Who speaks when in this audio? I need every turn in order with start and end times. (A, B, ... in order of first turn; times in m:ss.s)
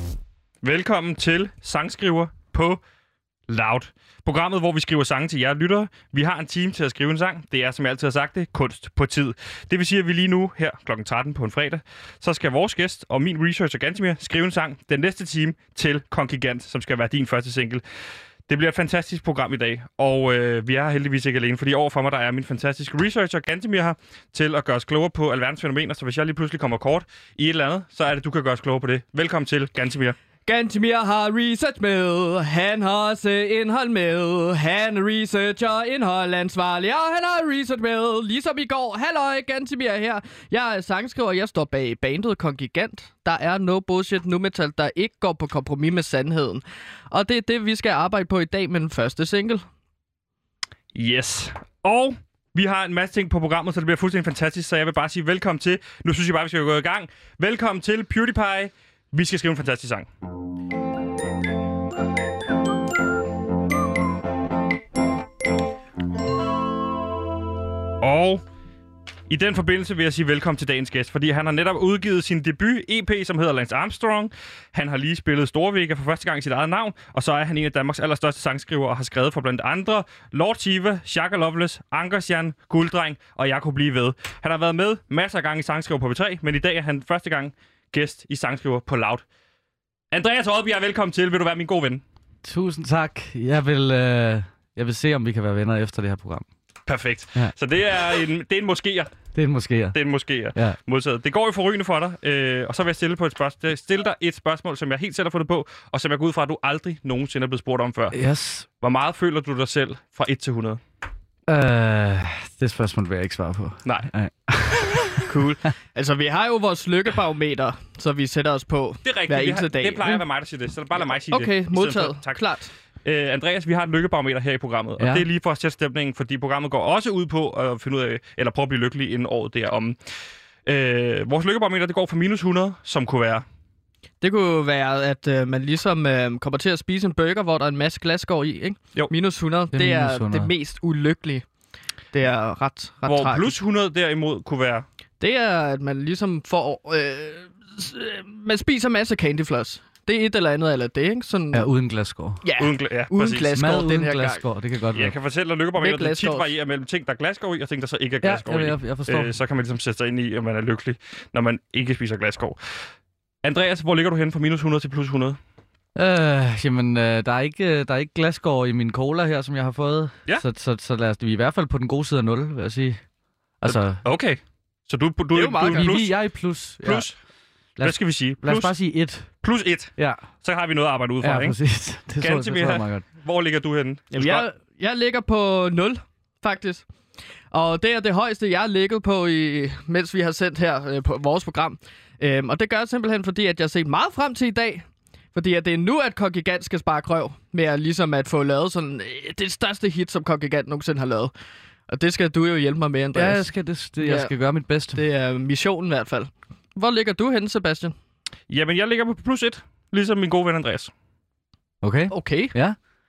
0:00.6-0:02.8 A
0:03.5-0:17.8 A
0:18.5-0:30.2 A
0:30.4-0:49.6 B
0:50.9-1:00.1 A
1:08.0-1:08.4 A
1:09.3-1:29.2 A
1:30.1-1:32.0 A
1:32.4-1:36.5 C
1:36.9-1:39.2 A
1:39.3-1:40.0 C
1:39.9-1:48.2 A
1:48.1-1:48.6 C
1:48.8-1:50.8 A
1:51.5-1:55.3 C
1:55.2-2:00.2 B
1:59.0-2:02.4 A
2:01.3-2:02.7 B
2:03.0-2:10.0 A
2:05.0-2:05.2 C
2:10.6-2:13.4 A
2:14.2-2:21.4 B
2:19.7-2:20.5 C
2:22.1-2:23.6 B
2:23.0-2:24.8 A
2:25.2-2:31.7 B
2:31.5-2:32.4 C
2:32.4-2:34.4 B
2:32.6-2:33.5 A
2:33.5-2:35.1 C
2:34.9-2:42.6 A
2:35.8-2:36.5 B
2:38.2-2:39.3 C
2:43.4-2:45.4 A
2:45.9-2:53.0 C
2:53.6-2:54.0 C
2:53.6-2:56.2 A
2:55.3-2:55.9 B
2:55.7-2:57.1 C
2:56.8-2:57.2 A
2:57.8-2:59.3 C
2:57.8-2:58.8 A
2:59.4-3:01.6 A
3:00.0-3:00.2 C
3:01.2-3:03.0 C
3:02.2-3:04.4 A
3:04.1-3:06.9 B
3:07.5-3:21.3 B
3:21.9-3:23.4 B
3:23.1-3:25.0 C
3:24.0-3:24.3 B
3:24.9-3:27.9 B
3:28.5-3:30.9 A
3:31.8-3:32.8 C
3:32.1-3:32.5 B